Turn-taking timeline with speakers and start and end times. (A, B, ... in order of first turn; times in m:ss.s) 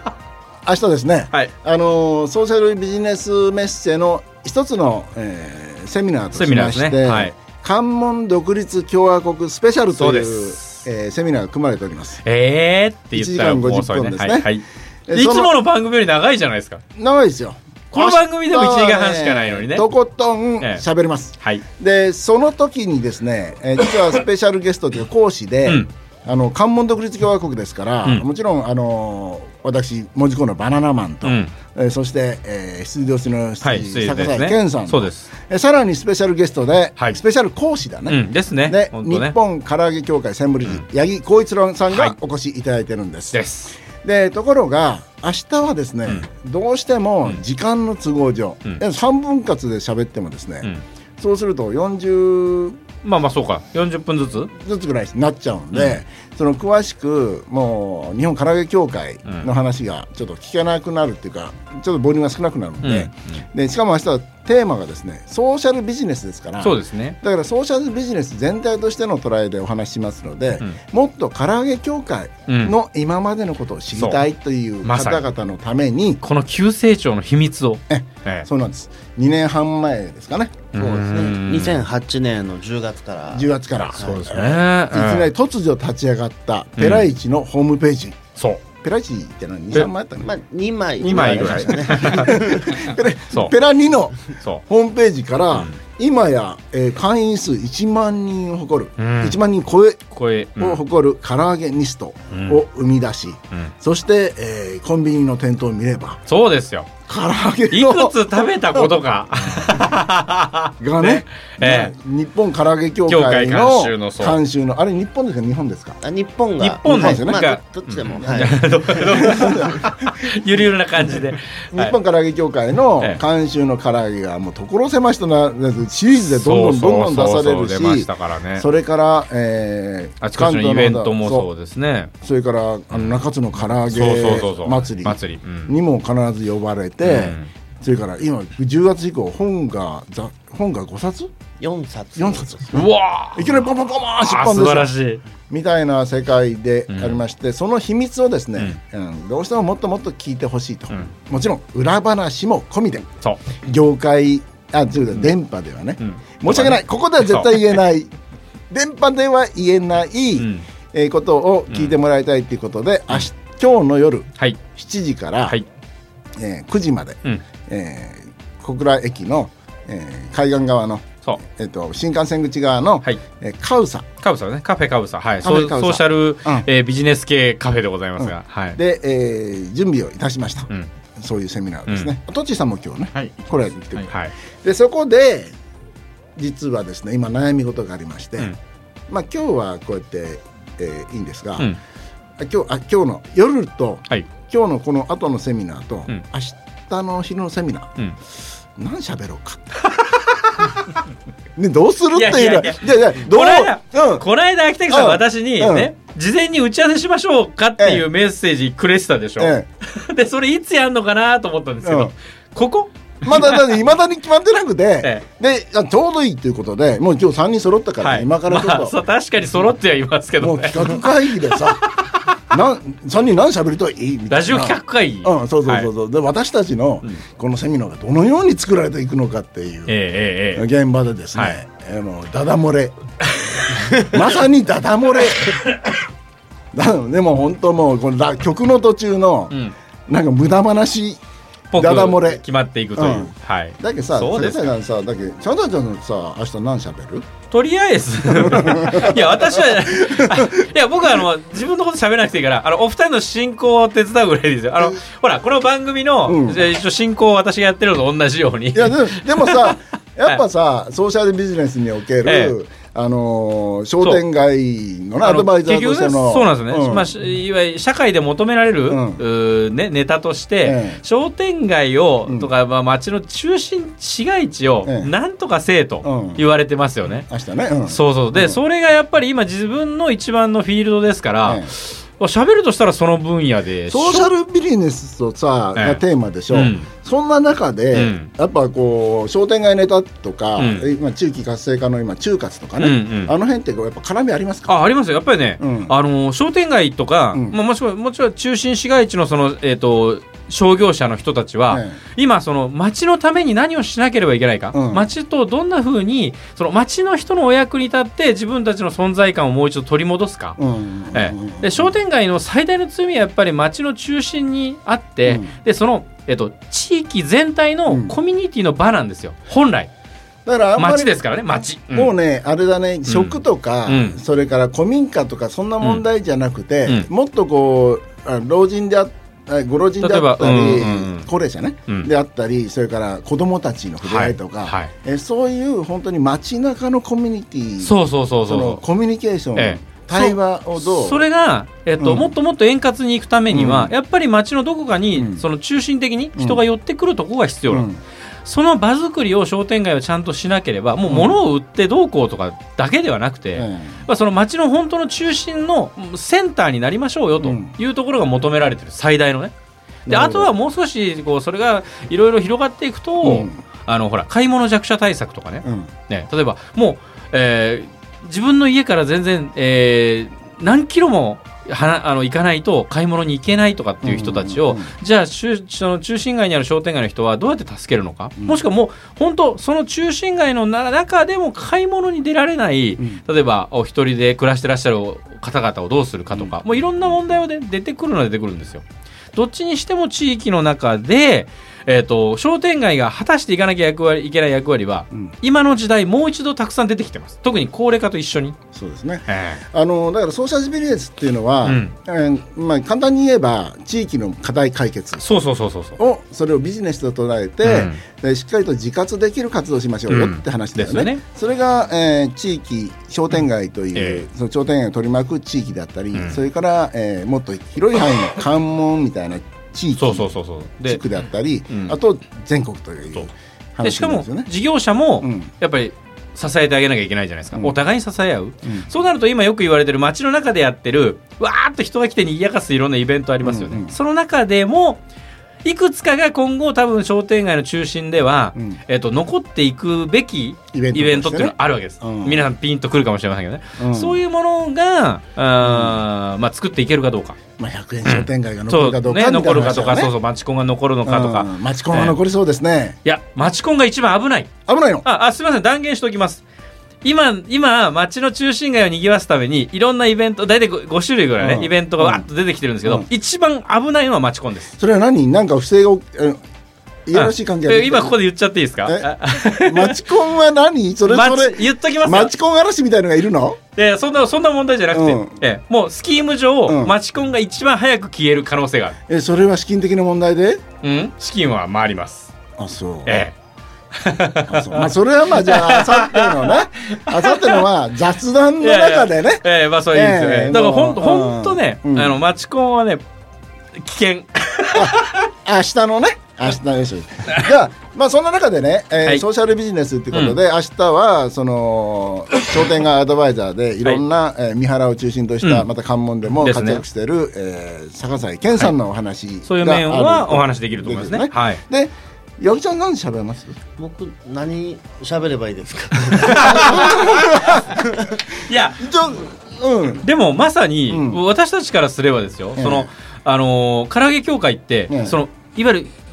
0:00.6-0:12.2 A
0:06.3-0:07.4 B
0:10.0-0:10.8 B
0:12.2-0:16.8 B
0:13.1-0:14.6 A
0:15.1-0:15.5 A
0:17.0-0:52.8 A
0:17.9-0:19.8 B
0:31.2-0:31.5 B
0:33.6-0:35.3 B
0:38.1-0:39.3 B
0:41.9-0:42.2 B
0:43.3-0:43.7 B
0:53.0-0:54.5 B
0:54.5-1:16.2 A
0:55.7-0:56.0 B
1:02.8-1:03.1 B
1:06.6-1:07.2 B
1:12.5-1:12.7 B
1:13.9-1:14.2 B
1:14.8-1:15.2 B
1:16.2-1:18.5 B
1:17.9-1:20.6 A
1:20.7-1:21.8 B
1:20.7-1:24.3 C
1:23.3-1:28.2 A
1:23.9-1:25.3 B
1:26.8-1:27.1 B
1:28.4-1:28.6 B
1:28.8-1:30.3 A
1:30.2-1:32.9 C
1:31.0-1:32.4 B
1:31.2-1:40.0 A
1:39.0-1:39.4 B
1:40.1-1:40.8 B
1:40.6-1:46.2 A
1:42.3-1:42.6 B
1:46.3-1:46.9 B
1:47.1-1:48.2 A
1:47.7-1:51.9 B
1:49.4-1:49.8 A
1:50.8-1:56.0 A
1:53.1-1:54.4 B
1:56.0-1:59.4 C
1:56.6-2:01.9 B
1:56.8-1:57.4 A
1:59.1-2:00.3 A
2:01.7-2:11.5 A
2:06.2-2:08.7 B
2:10.2-2:12.1 B
2:12.2-2:21.3 A
2:12.9-2:13.2 B
2:13.9-2:15.7 B
2:17.0-2:17.5 B
2:21.6-2:22.6 C
2:22.2-2:24.9 A
2:22.7-2:25.2 B
2:25.5-2:33.1 A
2:26.9-2:27.2 B
2:33.6-2:38.1 A
2:36.0-2:37.8 B
2:38.7-2:45.6 A
2:40.4-2:40.6 B
2:46.4-2:54.0 A
2:54.2-2:58.8 B
2:55.4-2:56.6 A
2:58.2-3:05.5 A
3:06.4-3:08.5 A
3:09.1-3:11.7 A
3:12.4-3:17.9 A
3:18.8-3:19.8 A
3:19.8-3:21.0 B
3:21.6-3:24.2 A
3:22.1-3:33.6 B
3:24.9-3:25.9 A
3:27.8-3:28.0 A
3:29.4-3:29.6 A
3:31.8-3:32.1 A
3:33.2-3:39.0 A
3:38.0-3:42.4 B
3:40.4-3:41.8 A
3:42.5-3:50.0 A
3:44.3-3:45.9 B
3:49.9-3:50.6 B
3:50.5-3:52.9 A
3:53.8-3:55.8 A
3:56.7-3:59.6 A
4:00.1-4:01.2 A
4:01.7-4:04.7 B
4:01.7-4:02.4 A
4:02.9-4:07.3 A
4:07.5-4:20.4 B
4:08.3-4:10.7 A
4:16.2-4:16.7 A
4:18.7-4:27.1 A
4:22.2-4:22.6 B
4:25.2-4:37.3 B
4:28.9-4:29.2 A
4:30.6-4:31.0 A
4:34.8-4:35.1 A
4:36.0-4:36.4 A
4:37.3-4:38.6 A
4:37.8-4:44.3 B
4:41.4-4:41.7 A
4:43.9-4:54.7 A
4:45.8-4:46.9 B
4:47.9-4:48.3 B
4:50.6-4:50.9 B
4:52.8-4:53.3 B
4:54.7-5:10.6 B
4:55.6-4:55.9 A
5:01.7-5:02.0 A
5:04.7-5:05.1 A
5:10.6-5:12.0 A
5:11.1-5:19.9 B
5:15.2-5:15.5 A
5:17.9-5:18.2 A
5:20.4-5:21.1 A
5:20.8-5:22.2 B
5:21.9-5:41.2 A
5:23.1-5:24.2 B
5:30.0-5:31.3 B
5:34.0-5:34.9 B
5:37.8-5:38.8 B
5:39.6-5:47.9 B
5:42.0-5:42.3 A
5:43.5-5:43.9 A
5:45.1-5:45.4 A
5:46.4-5:46.6 A
5:47.7-5:48.0 A
5:48.4-5:59.5 B
5:51.1-5:51.4 A
5:53.6-5:54.0 A
5:57.4-5:57.7 A
6:00.1-6:00.5 A
6:00.1-6:38.6 B
6:03.2-6:03.6 A
6:05.6-6:05.9 A
6:14.0-6:14.9 A
6:26.3-6:27.1 A
6:38.7-6:45.2 A
6:39.3-6:39.6 B
6:41.6-6:41.9 B
6:45.2-6:46.0 B
6:46.0-7:00.3 A
6:47.6-6:48.0 B
6:50.1-6:51.2 B
6:53.9-6:54.2 B
6:56.1-6:56.4 B
7:00.0-7:01.0 B
7:00.8-7:04.5 A
7:01.7-7:02.0 B
7:03.8-7:15.0 B
7:05.2-7:05.5 A
7:13.4-7:13.9 A
7:15.6-7:27.4 B
7:20.7-7:22.5 A
7:23.8-7:24.2 A
7:25.6-7:26.0 A
7:27.6-7:30.1 A
7:28.0-7:32.2 B
7:31.0-7:33.0 A
7:33.0-7:34.5 B
7:34.7-7:35.0 A
7:35.0-7:36.4 B
7:37.0-7:44.7 B
7:41.4-7:42.2 A
7:44.8-7:46.4 A
7:47.0-7:48.2 A
7:47.1-7:50.0 B
7:48.8-7:53.6 A
7:51.0-7:52.3 B
7:53.8-7:59.0 B
7:54.9-7:55.4 A
7:56.7-7:57.0 A
7:59.1-8:00.6 A
8:00.8-8:02.3 B
8:02.6-8:03.3 A
8:03.0-8:03.3 B
8:04.0-8:07.7 B
8:04.5-8:12.2 A
8:08.6-8:13.0 B
8:13.8-8:15.2 B
8:14.7-8:33.6 A
8:20.1-8:20.4 B
8:26.4-8:26.8 B
8:29.4-8:31.6 B
8:33.8-8:37.8 C
8:36.2-8:37.5 B
8:36.3-8:37.8 A
8:38.4-8:39.0 B
8:38.8-8:40.0 A
8:40.0-8:45.9 B
8:40.9-8:41.2 A
8:42.6-8:42.9 A
8:44.9-8:45.2 A